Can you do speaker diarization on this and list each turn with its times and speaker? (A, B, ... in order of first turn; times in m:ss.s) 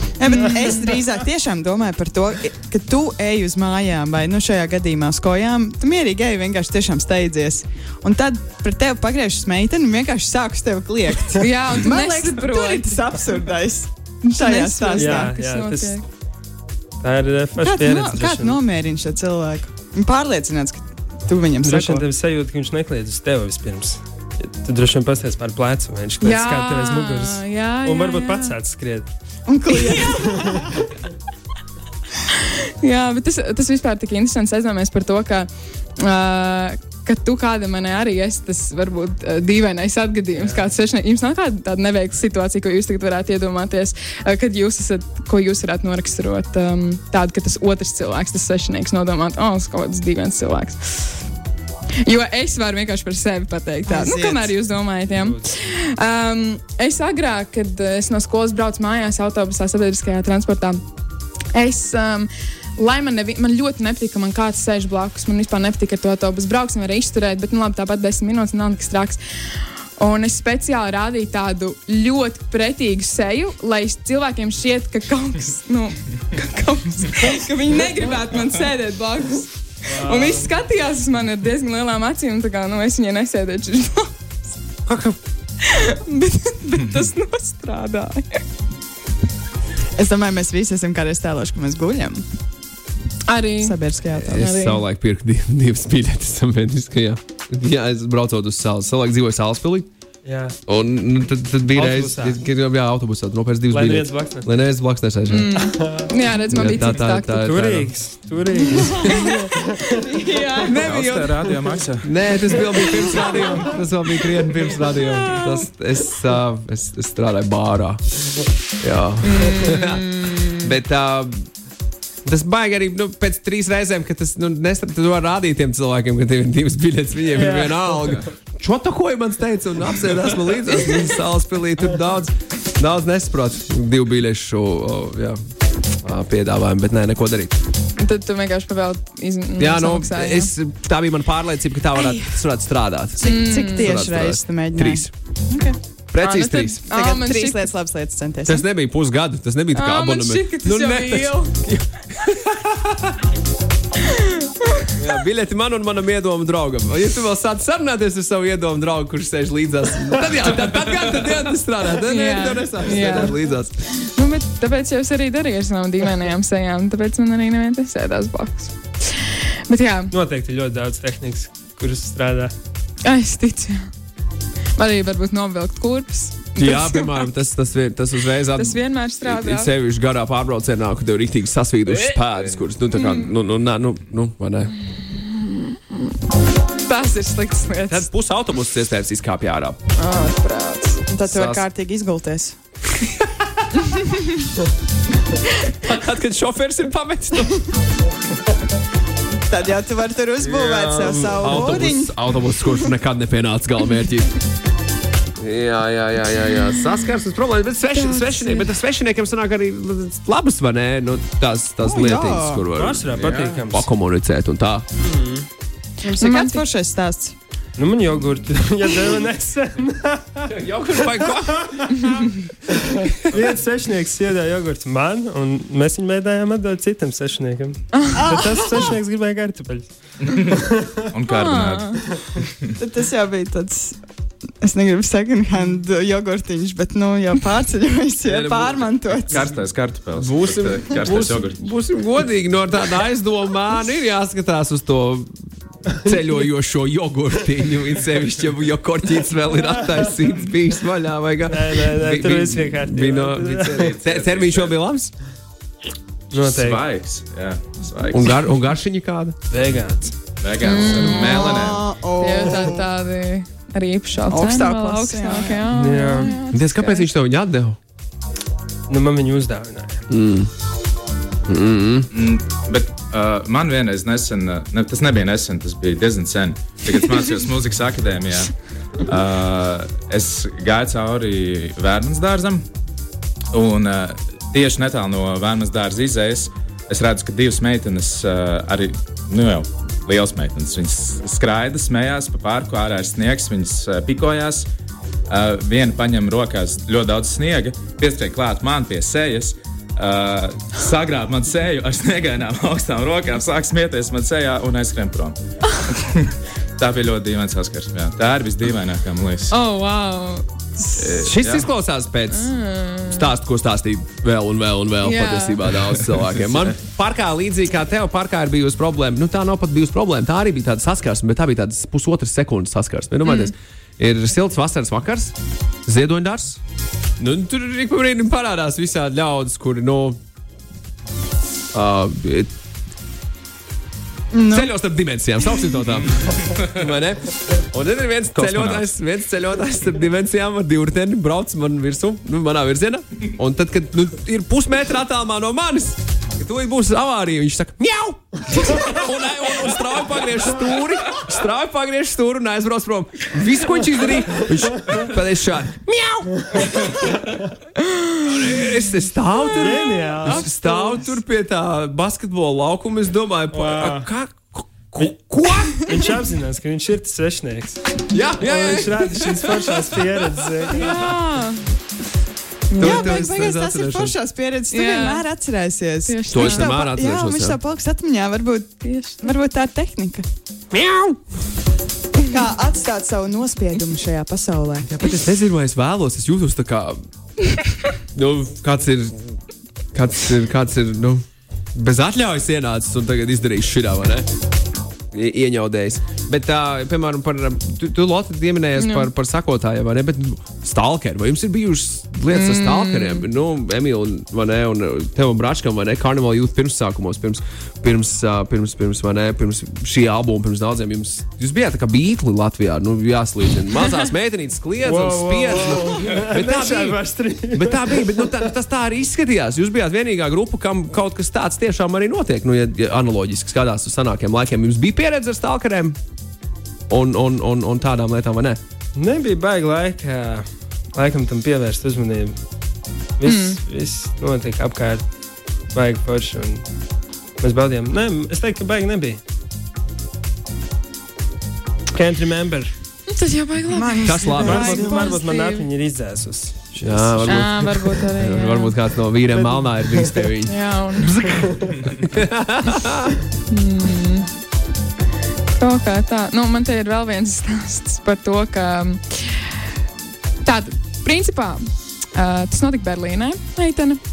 0:00.2-0:15.3 A
0:11.4-0:12.9 B
0:14.2-0:16.0 B
0:14.9-0:16.0 C
0:17.0-0:18.6 C
0:17.6-0:22.0 A
0:21.6-0:29.1 C
0:26.2-0:28.6 B
0:29.5-0:30.7 A
0:29.8-0:30.4 B
0:30.3-0:30.7 C
0:32.4-0:51.2 B
0:52.0-1:00.8 B
0:53.9-0:54.5 A
0:55.1-0:55.5 C
1:01.5-1:09.2 B
1:10.0-1:24.1 B
1:19.8-1:20.5 C
1:24.9-1:25.1 D
1:25.6-1:28.4 B
1:30.0-1:32.2 A
1:33.2-1:34.8 B
1:33.6-1:34.4 A
1:34.2-1:39.9 D
1:40.2-1:40.6 C
1:40.7-1:45.6 D
1:41.7-1:42.4 C
1:43.7-1:44.5 C
1:45.3-1:47.5 B
1:45.7-1:46.1 C
1:46.5-1:47.9 D
1:47.4-1:49.5 C
1:48.8-1:49.3 D
1:48.9-1:50.8 B
1:50.6-1:58.0 D
1:50.7-1:52.1 E
1:52.9-1:53.8 E
1:54.3-1:54.6 E
1:54.9-1:55.7 B
1:58.8-2:01.4 D
1:59.2-2:00.7 B
2:02.2-2:15.4 D
2:07.3-2:08.2 C
2:16.0-2:17.6 D
2:18.0-2:20.5 B
2:19.6-2:25.1 D
2:23.2-2:25.8 A
2:23.2-2:23.9 B
2:26.1-2:26.8 D
2:26.2-2:27.7 B
2:26.9-2:28.6 A
2:28.4-2:33.0 D
2:29.7-2:31.5 B
2:34.1-2:34.9 B
2:35.0-2:43.7 D
2:42.0-2:50.1 B
2:50.1-2:52.5 C
2:53.0-2:53.8 B
2:54.8-2:57.3 B
2:56.6-3:04.7 D
2:58.5-2:59.7 B
3:03.0-3:03.3 B
3:04.8-3:06.1 B
3:06.8-3:08.1 B
3:07.9-3:09.8 D
3:10.0-3:11.0 B
3:11.1-3:12.6 A
3:11.2-3:11.6 D
3:15.7-3:17.6 D
3:19.3-3:22.1 A
3:20.4-3:24.3 D
3:25.4-3:34.8 D
3:27.9-3:28.7 B
3:31.8-3:32.7 A
3:32.7-3:33.9 C
3:33.2-3:33.5 E
3:35.0-3:35.5 C
3:36.0-3:37.3 A
3:36.2-3:36.6 B
3:37.8-3:40.4 C
3:40.5-3:42.4 D
3:43.3-3:51.1 C
3:48.1-3:48.9 A
3:50.3-3:52.7 E
3:51.3-3:52.0 B
3:52.8-3:54.0 A
3:54.6-3:59.5 A
3:58.2-3:59.5 D
3:59.3-4:01.7 E
4:00.1-4:05.3 D
4:05.9-4:15.1 D
4:11.4-4:13.9 C
4:13.9-4:14.8 E
4:16.3-4:16.8 C
4:16.3-4:18.3 E
4:18.1-4:19.4 D
4:19.5-4:20.1 C
4:20.4-4:21.8 E
4:20.6-4:21.6 B
4:21.0-4:22.8 A
4:22.2-4:27.1 B
4:24.3-4:25.6 A
4:25.7-4:26.4 C
4:26.5-4:27.8 D
4:28.9-4:30.0 C
4:30.1-4:30.5 D
4:31.5-4:32.1 D
4:32.1-4:38.5 E
4:39.0-4:42.6 E
4:43.5-4:54.7 E
4:55.3-5:05.4 E
5:05.9-5:09.5 E
5:09.5-5:11.3 B
5:10.9-5:11.7 E
5:11.2-5:12.5 D
5:12.3-5:13.3 B
5:13.1-5:25.3 D
5:15.0-5:15.8 B
5:16.4-5:16.7 E
5:23.2-5:23.5 B
5:25.9-5:26.6 D
5:27.2-5:30.2 D
5:31.7-5:32.5 D
5:34.3-5:34.7 A
5:34.5-5:57.1 D
5:38.3-5:38.9 E
5:58.2-6:06.0 D
5:59.4-6:01.1 B
5:59.5-6:00.8 C
6:03.5-6:04.1 C
6:05.8-6:07.8 C
6:08.1-6:11.0 D
6:08.4-6:11.1 C
6:10.7-6:11.6 B
6:12.7-6:13.2 B
6:12.7-6:14.2 D
6:12.8-6:20.2 A
6:14.7-6:15.2 B
6:16.0-6:16.7 B
6:16.3-6:17.6 D
6:18.8-6:19.3 B
6:20.7-6:21.2 D
6:22.3-6:24.9 A
6:24.9-6:27.0 D
6:28.1-6:29.3 D
6:29.9-6:31.2 D
6:31.7-6:34.3 D
6:35.1-6:57.0 D
6:38.8-6:39.1 B
6:42.3-6:43.3 B
6:54.8-6:58.5 C
6:57.5-7:06.0 D
7:06.9-7:08.6 D
7:08.9-7:12.3 C
7:13.2-7:15.0 C
7:13.2-7:13.6 B
7:15.7-7:16.6 C
7:17.4-7:19.2 C
7:21.9-7:22.7 C
7:23.1-7:25.7 B
7:23.7-7:25.1 A
7:24.0-7:24.7 D
7:24.4-7:27.5 C
7:26.8-7:33.1 D
7:27.2-7:28.7 B
7:29.3-7:30.3 C
7:30.4-7:31.2 B
7:33.5-7:34.3 B
7:35.5-7:39.6 B
7:40.4-7:41.6 B
7:42.1-7:44.0 B